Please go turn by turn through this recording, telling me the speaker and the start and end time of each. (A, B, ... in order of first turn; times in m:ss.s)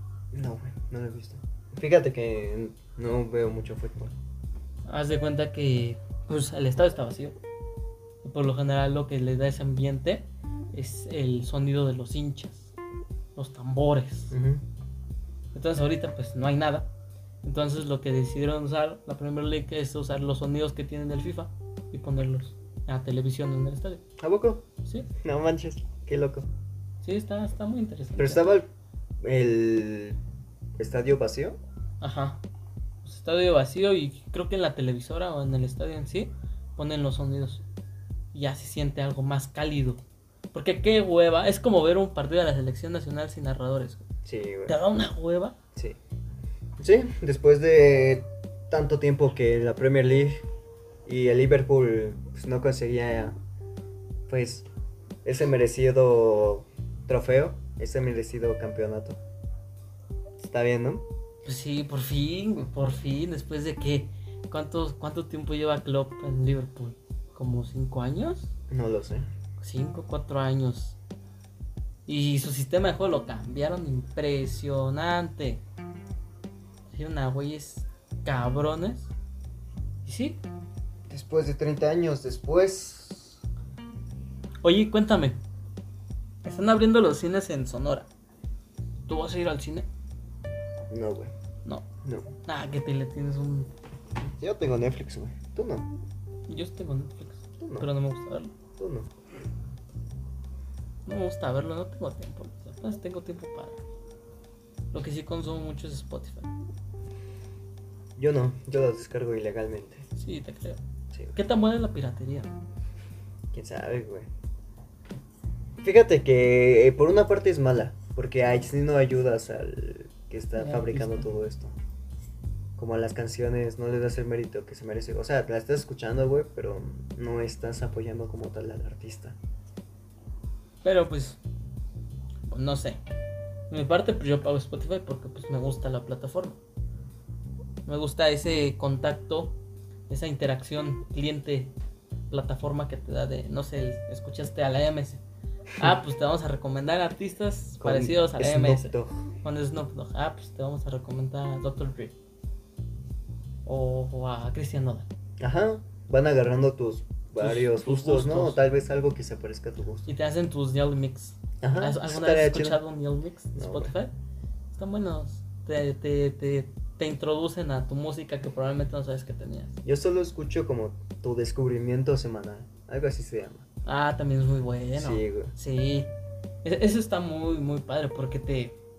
0:00.3-0:04.1 A
0:04.9-0:07.4 B
0:08.2-0:12.7 B
0:13.4-0:14.4 B
0:14.3-0:14.6 A
0:15.5-0:16.9 B
0:17.4-0:24.0 B
0:24.2-0:24.6 A
0:25.2-0:26.5 A
0:27.0-0:28.6 B
0:28.2-0:28.7 A
0:29.2-0:30.2 A
0:30.8-0:31.6 A
0:32.0-0:32.4 B
0:33.0-0:37.6 B
0:38.3-0:40.0 B
0:40.5-0:44.0 B
0:44.2-0:44.8 A
0:44.7-0:45.6 B
0:46.8-0:50.4 A
0:51.1-0:53.4 A
0:54.3-0:54.7 A
0:55.2-0:59.2 A
1:00.4-1:01.1 A
1:01.4-1:08.5 B
1:08.7-1:09.3 A
1:09.6-1:11.0 B
1:12.1-1:15.6 B
1:16.9-1:19.1 B
1:20.0-1:20.4 B
1:21.1-1:23.4 A
1:24.6-1:25.4 B
1:26.4-1:28.1 B
1:29.1-1:29.9 B
1:30.9-1:31.3 A
1:32.0-1:32.3 A
1:32.5-1:33.7 B
1:34.4-1:35.9 A
1:36.5-1:38.5 B
1:37.6-1:37.9 A
1:38.8-1:39.1 A
1:41.1-1:43.8 B
1:44.9-1:46.5 B
1:48.2-1:50.1 A
1:50.2-1:50.8 B
1:51.4-1:52.6 B
1:53.5-1:54.3 A
1:55.8-2:01.8 A
2:00.6-2:01.3 B
2:02.8-2:09.4 A
2:10.8-2:11.4 B
2:12.5-2:13.0 B
2:13.7-2:16.6 B
2:17.9-2:19.6 B
2:20.1-2:21.7 B
2:22.3-2:25.2 B
2:25.8-2:32.2 B
2:27.8-2:29.2 A
2:33.7-2:35.1 B
2:35.4-2:40.1 A
2:37.4-2:38.6 B
2:40.1-2:44.1 B
2:41.6-2:42.8 A
2:43.6-2:43.9 A
2:44.7-2:49.8 B
2:49.8-2:53.6 A
2:53.9-2:56.1 B
2:55.0-2:55.5 A
2:56.6-2:58.8 B